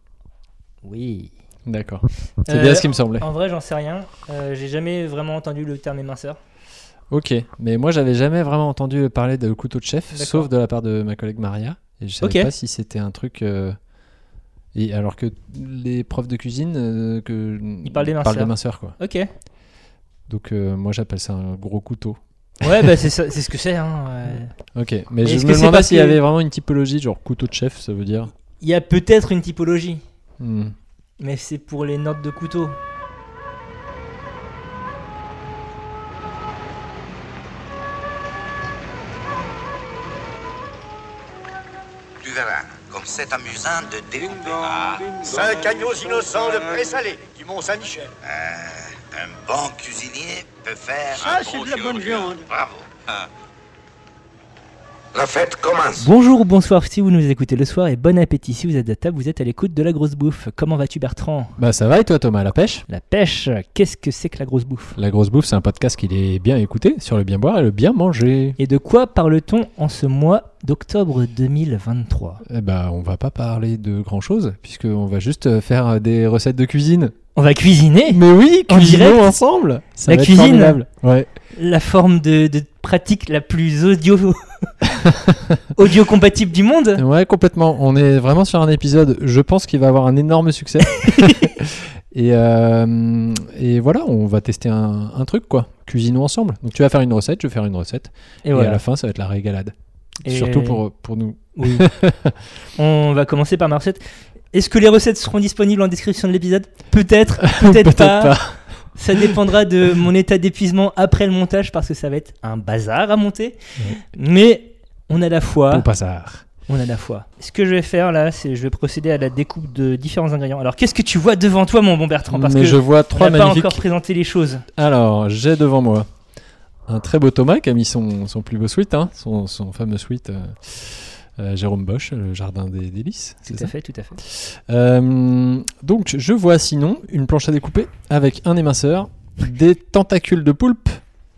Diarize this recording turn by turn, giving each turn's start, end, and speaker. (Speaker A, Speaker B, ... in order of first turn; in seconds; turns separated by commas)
Speaker A: 0.8-1.3, Speaker B: 1.7-3.3, Speaker A: 2.5-6.4, Speaker B: 7.1-13.8, Speaker A: 10.1-10.5, Speaker A: 12.2-12.5, Speaker B: 14.7-19.0, Speaker A: 17.8-19.3, Speaker B: 20.3-22.8, Speaker A: 22.6-24.5, Speaker B: 24.7-28.3, Speaker A: 25.2-26.2, Speaker A: 28.6-30.0, Speaker B: 30.4-30.8, Speaker A: 31.2-32.8, Speaker C: 42.2-47.1, Speaker D: 45.2-48.1, Speaker C: 48.2-53.3, Speaker D: 51.3-52.3, Speaker C: 55.1-56.1, Speaker A: 56.0-61.6, Speaker B: 61.6-62.9, Speaker A: 62.9-65.0, Speaker B: 65.0-68.6, Speaker A: 68.6-72.4, Speaker B: 72.5-77.1, Speaker A: 77.3-79.3, Speaker B: 78.1-81.3, Speaker A: 80.1-80.8, Speaker A: 81.5-84.7, Speaker B: 84.8-85.7, Speaker A: 85.8-87.0, Speaker B: 87.0-102.4, Speaker A: 91.0-91.5, Speaker A: 98.5-98.8, Speaker A: 100.2-100.8, Speaker A: 101.6-101.9, Speaker A: 102.8-104.0, Speaker A: 104.5-108.4, Speaker B: 107.4-109.3, Speaker A: 108.9-115.9, Speaker B: 115.7-116.5, Speaker A: 116.7-124.7, Speaker B: 122.3-123.8, Speaker B: 124.8-126.1, Speaker B: 126.9-141.0, Speaker A: 133.5-134.2